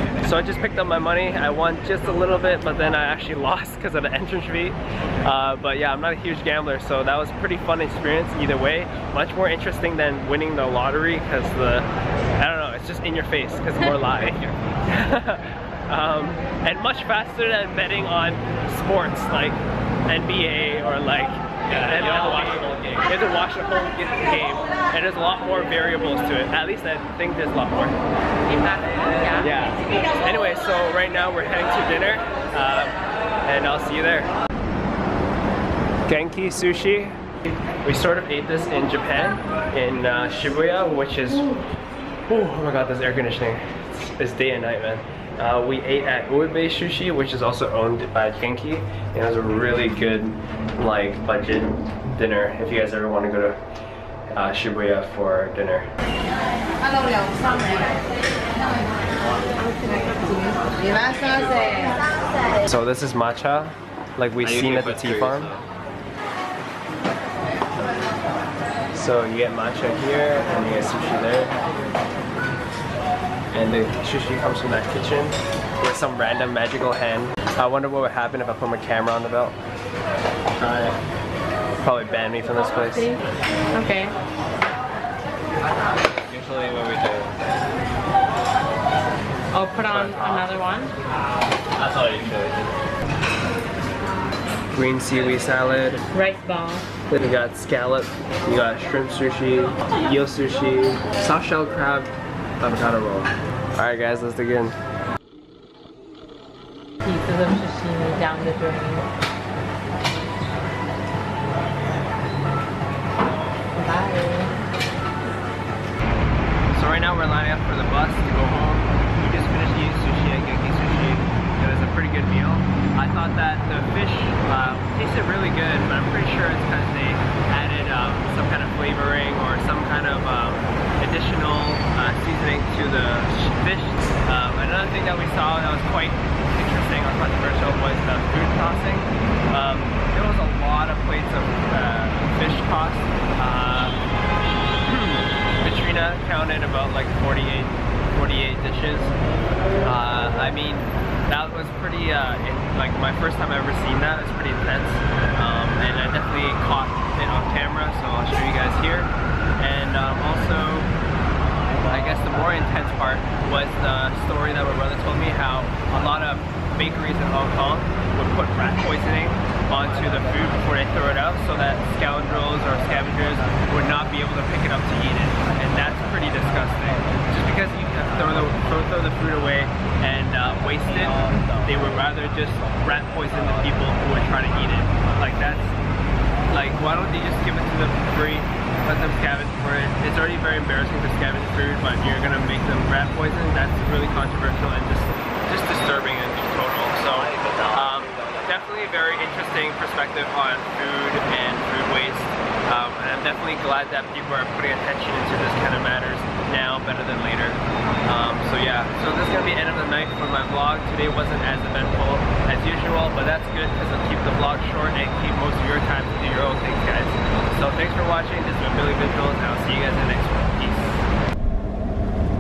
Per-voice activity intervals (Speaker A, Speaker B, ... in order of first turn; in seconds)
Speaker A: 0.2-28.0, 29.4-34.3, 36.1-37.1, 37.8-41.6, 42.3-53.6, 54.3-55.9, 62.6-65.5, 68.9-71.6, 73.5-79.5, 80.6-81.0, 81.8-83.1, 94.7-96.0, 97.1-104.8, 116.7-144.0, 144.8-149.1, 149.8-160.9, 161.9-185.8, 186.5-221.0
Speaker B: 14.0-14.6, 21.7-23.1, 60.9-61.8, 64.4-65.6, 86.2-87.4, 89.8-90.5, 91.8-92.7, 181.1-181.7, 197.0-198.6
Speaker C: 28.5-29.5, 82.7-83.2, 83.7-84.1, 89.5-90.9, 96.1-96.9, 107.0-109.1, 113.7-114.5